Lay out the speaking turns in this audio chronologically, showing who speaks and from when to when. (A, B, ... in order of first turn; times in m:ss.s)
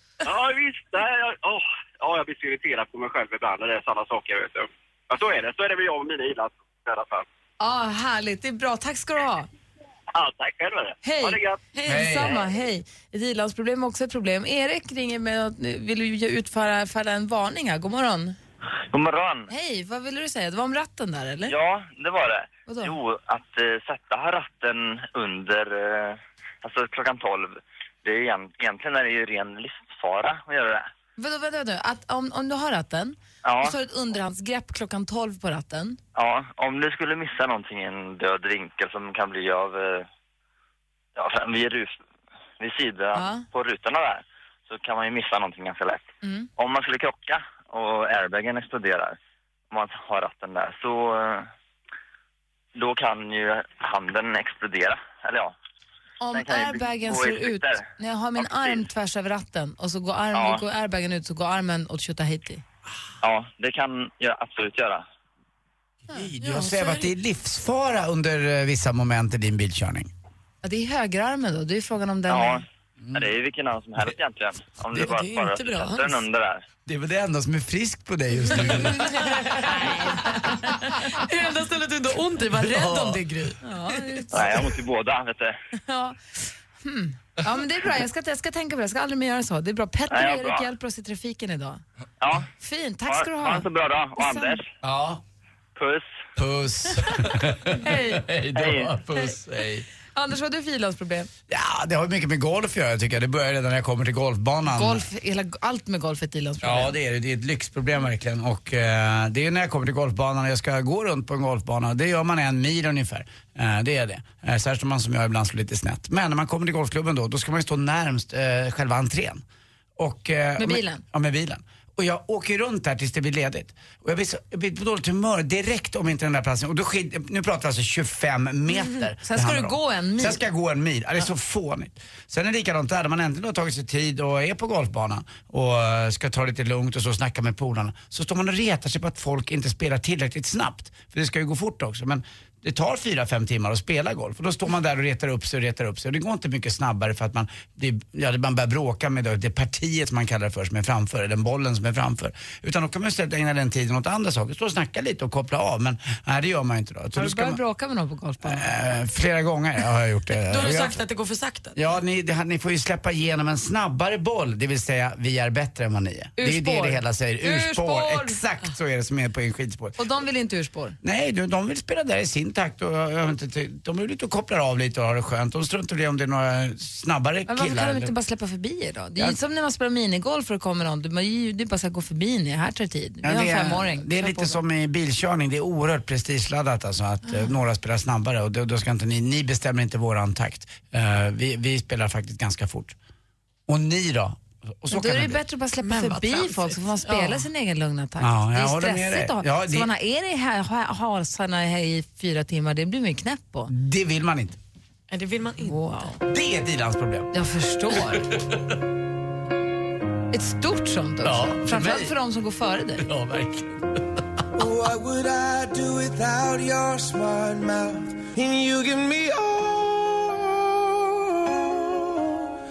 0:00.2-0:07.2 A
0:07.6-0:09.5 B
0:10.1-0:11.6 A
0:11.0-0:18.4 B
0:11.9-0:12.4 C
0:18.9-0:19.5 D
0:19.5-0:21.5 B
0:21.5-0:30.9 D
0:22.7-0:22.9 B
0:31.2-0:36.0 B
0:33.4-0:33.8 D
0:36.1-0:40.1 D
0:41.1-0:42.0 D
0:42.6-0:46.1 D
0:43.1-0:43.4 B
0:46.2-0:46.5 B
0:46.6-0:49.2 D
0:49.7-0:51.5 D
0:52.8-0:55.5 D
0:56.2-1:02.6 B
0:56.3-0:58.8 D
1:00.3-1:00.6 D
1:03.2-1:05.0 D
1:06.1-1:10.1 C
1:06.4-1:07.1 E
1:10.6-1:12.6 B
1:12.3-1:16.6 D
1:14.9-1:16.2 E
1:16.9-1:19.5 C
1:18.7-1:20.5 B
1:19.2-1:20.2 E
1:20.3-1:20.7 C
1:21.1-1:23.6 E
1:22.6-1:23.2 C
1:23.6-1:24.7 B
1:24.3-1:25.6 D
1:25.8-1:31.8 B
1:30.1-1:30.7 D
1:32.2-1:32.5 D
1:32.6-1:34.6 B
1:33.1-1:34.7 D
1:34.8-1:35.2 C
1:35.8-1:36.2 D
1:36.4-1:39.9 C
1:37.7-1:38.3 B
1:38.5-1:39.0 D
1:40.1-1:41.3 B
1:41.5-1:45.1 C
1:44.6-1:47.0 B
1:46.6-1:59.4 C
2:00.0-2:37.6 C
2:00.6-2:01.0 B
2:09.2-2:10.4 B
2:37.2-2:38.6 B
2:38.4-2:41.0 C
2:40.5-2:41.8 E
2:41.8-2:50.0 C
2:46.4-2:48.4 B
2:50.0-2:51.0 B
2:51.0-2:58.1 C
2:57.5-3:04.6 B
3:03.2-3:13.0 C
3:13.7-3:15.4 C
3:14.9-3:23.7 B
3:15.8-3:17.4 E
3:18.2-3:19.9 C
3:23.7-3:24.6 C
3:25.1-3:25.8 E
3:25.6-3:26.2 B
3:26.2-3:27.3 C
3:27.3-3:28.3 B
3:27.9-3:28.2 C
3:30.3-3:33.1 B
3:31.2-3:32.1 C
3:33.0-3:34.0 C
3:34.6-3:42.4 F